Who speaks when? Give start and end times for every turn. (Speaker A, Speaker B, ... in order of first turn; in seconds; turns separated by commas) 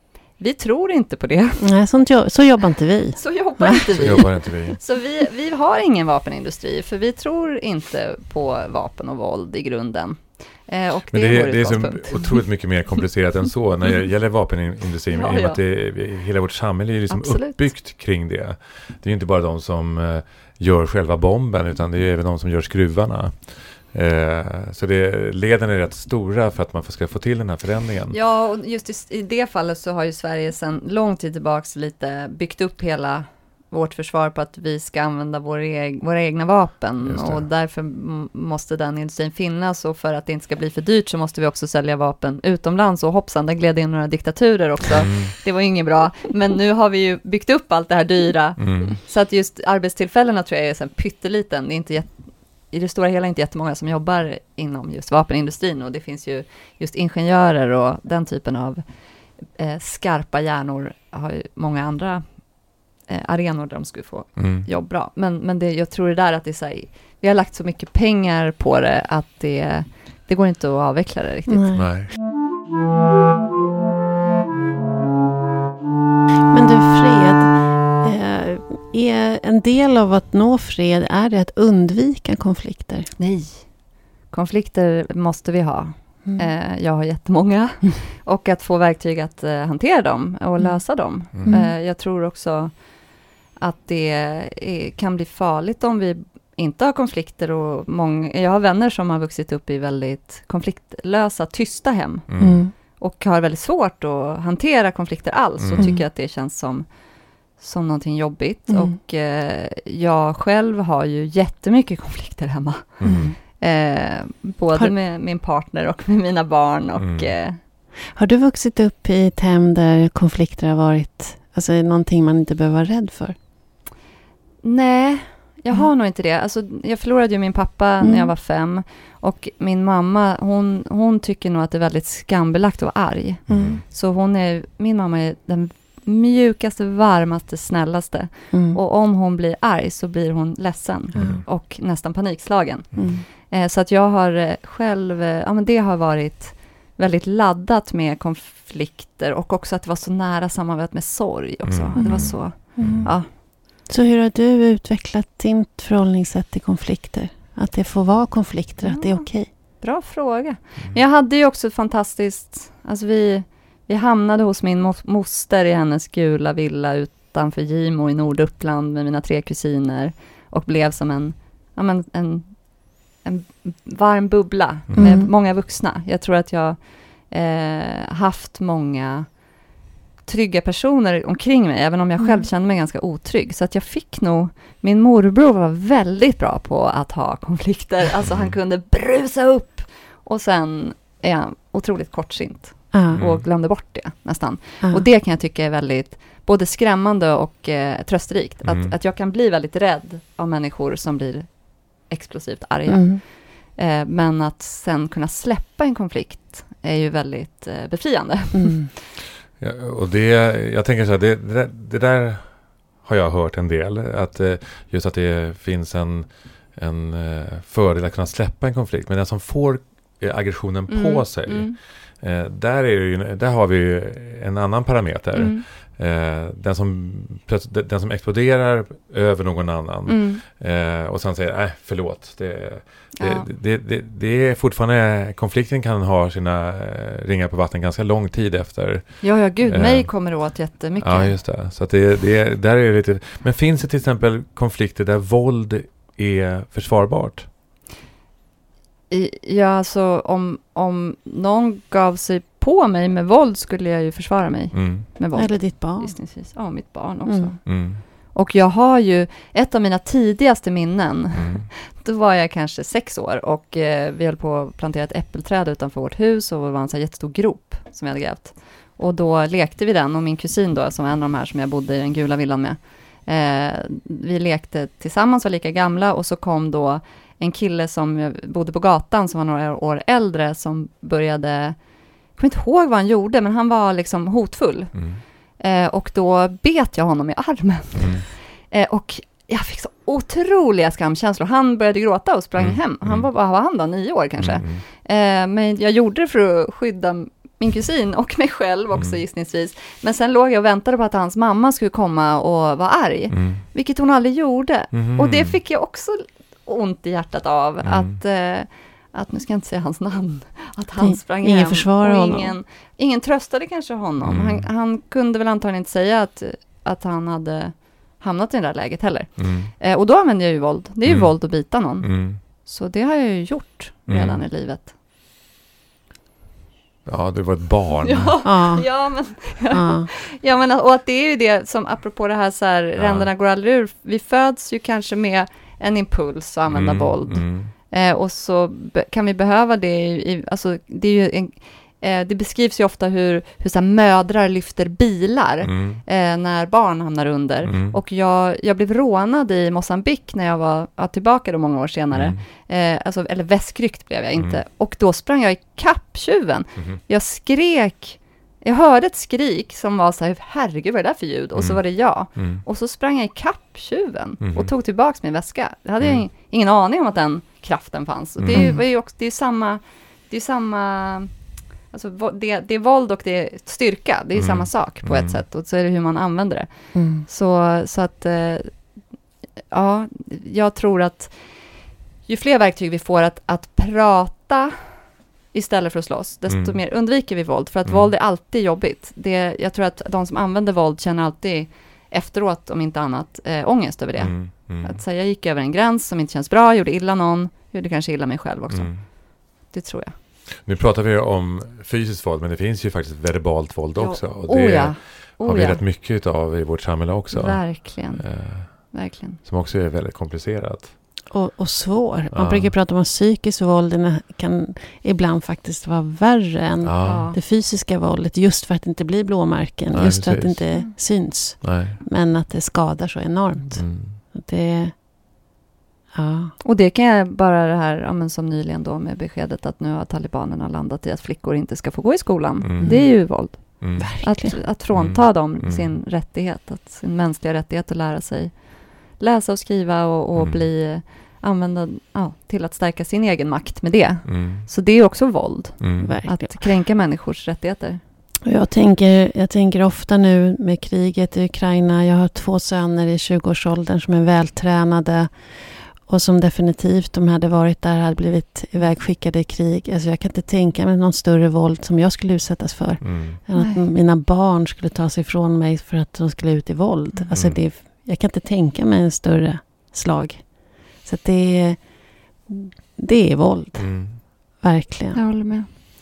Speaker A: 0.4-1.6, Speaker B: 1.6-4.2, Speaker A: 3.2-12.4, Speaker C: 4.0-4.8, Speaker C: 11.1-28.2, Speaker A: 15.1-15.6, Speaker A: 17.1-17.7, Speaker A: 28.1-52.1, Speaker C: 37.0-37.5, Speaker C: 44.9-45.3, Speaker C: 48.6-49.0, Speaker A: 52.7-58.8, Speaker A: 59.6-62.2, Speaker A: 63.1-71.7, Speaker C: 64.4-64.7, Speaker B: 71.5-71.9, Speaker C: 71.8-72.1, Speaker B: 76.5-83.1, Speaker A: 83.2-83.7, Speaker A: 84.3-92.7, Speaker C: 91.3-91.6, Speaker B: 91.4-91.7, Speaker A: 93.6-102.3, Speaker C: 102.3-102.6, Speaker B: 102.4-102.7, Speaker A: 103.0-106.9, Speaker C: 105.6-105.9, Speaker B: 105.8-106.0, Speaker A: 107.6-113.0, Speaker C: 113.0-113.3, Speaker B: 113.0-113.4, Speaker A: 113.6-117.6, Speaker C: 117.0-117.3, Speaker B: 118.1-123.4, Speaker A: 124.6-153.3, Speaker B: 128.0-128.3, Speaker B: 133.5-133.8, Speaker C: 133.5-133.8, Speaker B: 138.5-138.8, Speaker B: 141.2-141.4, Speaker C: 141.2-141.4, Speaker B: 143.0-143.2, Speaker C: 151.7-153.1, Speaker B: 152.0-153.1, Speaker B: 153.9-159.5, Speaker A: 158.8-159.3, Speaker A: 159.8-172.7, Speaker A: 173.2-179.3, Speaker C: 174.9-175.2, Speaker B: 175.0-175.3, Speaker A: 180.3-208.9, Speaker B: 182.2-182.5, Speaker C: 188.2-188.5, Speaker B: 192.9-193.2, Speaker C: 193.1-193.4, Speaker C: 198.6-198.9, Speaker B: 202.9-203.2, Speaker B: 208.6-208.9, Speaker C: 209.6-240.3, Speaker A: 220.9-221.8, Speaker A: 225.3-225.7, Speaker A: 230.1-230.4, Speaker A: 233.2-233.5, Speaker A: 239.2-241.4, Speaker C: 241.0-247.5, Speaker A: 249.1-281.8, Speaker C: 254.7-255.1, Speaker B: 255.3-256.2, Speaker B: 257.3-257.5, Speaker C: 257.7-258.0, Speaker C: 261.4-261.7, Speaker A: 282.4-284.9, Speaker C: 284.9-285.2, Speaker A: 285.6-324.9, Speaker C: 288.0-288.2, Speaker C: 292.6-293.3, Speaker C: 294.4-294.8, Speaker C: 303.3-303.6, Speaker C: 304.9-305.6, Speaker C: 307.8-308.1, Speaker B: 311.0-312.6, Speaker C: 314.2-314.7, Speaker C: 319.4-319.7, Speaker C: 321.1-321.3, Speaker C: 322.0-322.4, Speaker C: 324.1-324.4, Speaker C: 327.1-328.4, Speaker A: 328.0-371.3, Speaker B: 328.4-328.9, Speaker B: 329.7-330.1, Speaker C: 333.0-333.3, Speaker C: 336.7-337.7, Speaker C: 345.6-346.0, Speaker C: 347.6-348.0, Speaker C: 352.1-352.4, Speaker C: 361.6-362.6, Speaker C: 364.4-364.7, Speaker C: 368.4-368.7, Speaker B: 368.5-368.8, Speaker A: 371.9-376.7, Speaker C: 374.4-375.4, Speaker B: 376.9-377.2, Speaker A: 377.3-378.8, Speaker A: 379.7-381.4, Speaker A: 382.3-384.8, Speaker A: 385.5-399.1, Speaker C: 386.5-386.8, Speaker C: 394.2-395.0, Speaker C: 398.7-399.0, Speaker A: 399.7-400.1, Speaker C: 400.6-411.0, Speaker A: 404.0-405.8, Speaker A: 407.3-409.4, Speaker B: 411.3-424.9, Speaker C: 412.3-412.7, Speaker C: 416.8-417.3, Speaker A: 417.0-417.4, Speaker C: 419.9-420.7, Speaker C: 421.6-422.0, Speaker C: 423.8-424.2, Speaker B: 426.1-426.5, Speaker A: 426.6-438.5, Speaker C: 432.6-434.2, Speaker B: 432.8-433.1, Speaker B: 434.0-434.6, Speaker C: 434.9-435.9, Speaker A: 439.2-448.0, Speaker C: 440.4-440.6, Speaker C: 444.3-444.7, Speaker C: 445.8-446.2, Speaker B: 446.0-446.6, Speaker B: 448.4-471.9, Speaker C: 463.0-463.4, Speaker A: 463.6-463.9, Speaker C: 467.3-467.6, Speaker B: 472.5-473.9, Speaker C: 473.8-474.2, Speaker B: 474.6-475.2, Speaker A: 475.1-475.7